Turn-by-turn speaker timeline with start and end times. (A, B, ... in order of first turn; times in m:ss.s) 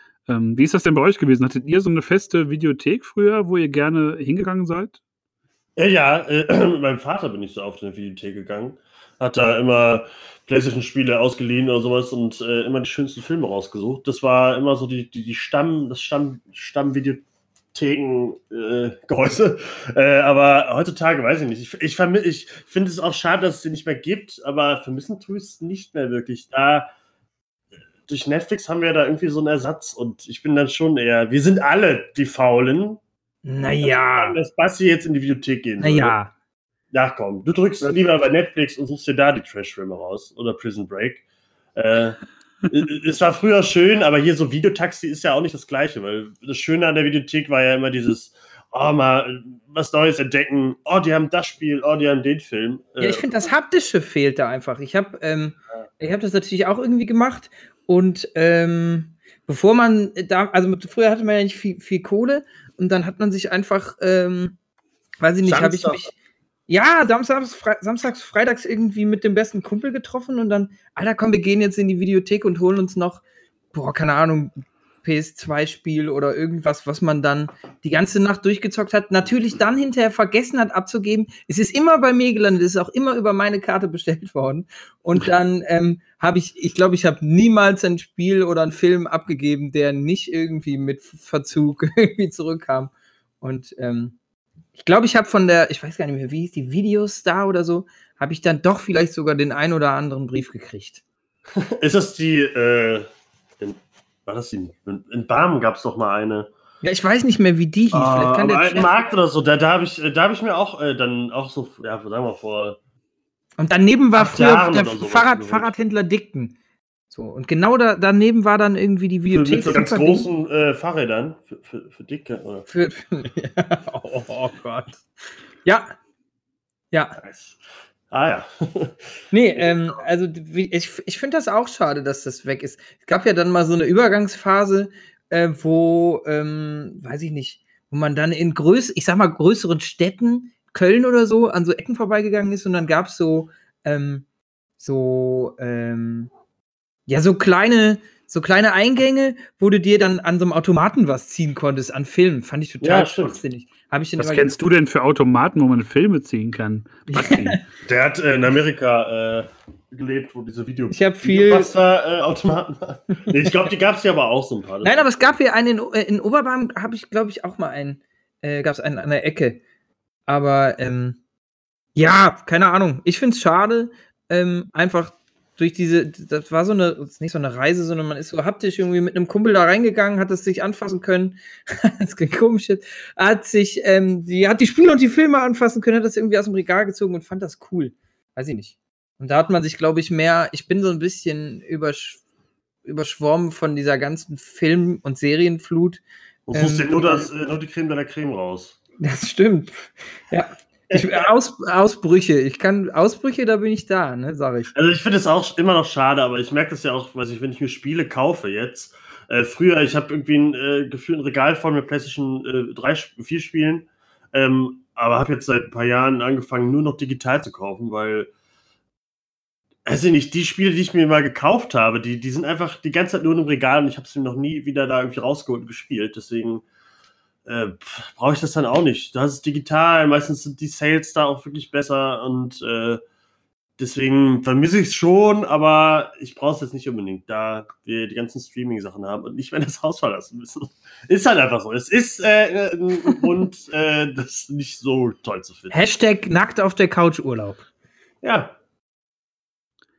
0:00.3-0:05.0 A
0:05.8-0:17.2 B
0:17.7-0:26.9 B
0:28.1-0:33.0 B
0:33.4-0:34.4 C
0:33.8-0:36.1 B
0:35.8-0:36.3 C
0:36.9-0:41.2 B
0:41.8-0:53.2 B
0:53.0-1:04.6 C
1:05.2-1:06.1 C
1:05.4-1:06.1 B
1:06.7-1:34.2 C
1:34.8-1:41.0 C
1:41.6-1:43.1 B
1:43.6-1:46.5 B
1:46.8-1:48.9 C
1:47.9-1:52.8 B
1:53.6-1:56.6 C
1:54.2-1:55.7 B
1:57.1-2:00.3 C
1:59.3-2:02.7 B
2:02.7-2:05.0 C
2:05.6-2:06.0 C
2:06.9-2:07.2 C
2:07.2-2:07.6 B
2:08.1-2:09.1 B
2:09.3-2:24.3 C
2:09.6-2:10.0 B
2:24.8-2:26.3 C
2:27.1-2:34.6 C
2:32.8-2:33.4 B
2:34.2-2:37.6 A
2:37.1-2:37.6 C
2:37.9-2:45.1 B
2:40.9-2:41.7 C
2:44.8-2:49.6 C
2:50.3-2:51.2 C
2:52.0-3:12.2 C
3:12.8-3:17.3 C
3:16.5-3:18.8 B
3:19.0-3:24.7 C
3:20.9-3:21.3 B
3:24.7-3:38.3 B
3:39.9-3:46.6 B
3:47.5-3:53.0 B
3:53.8-4:05.8 B
4:05.7-4:07.6 C
4:08.2-4:08.6 B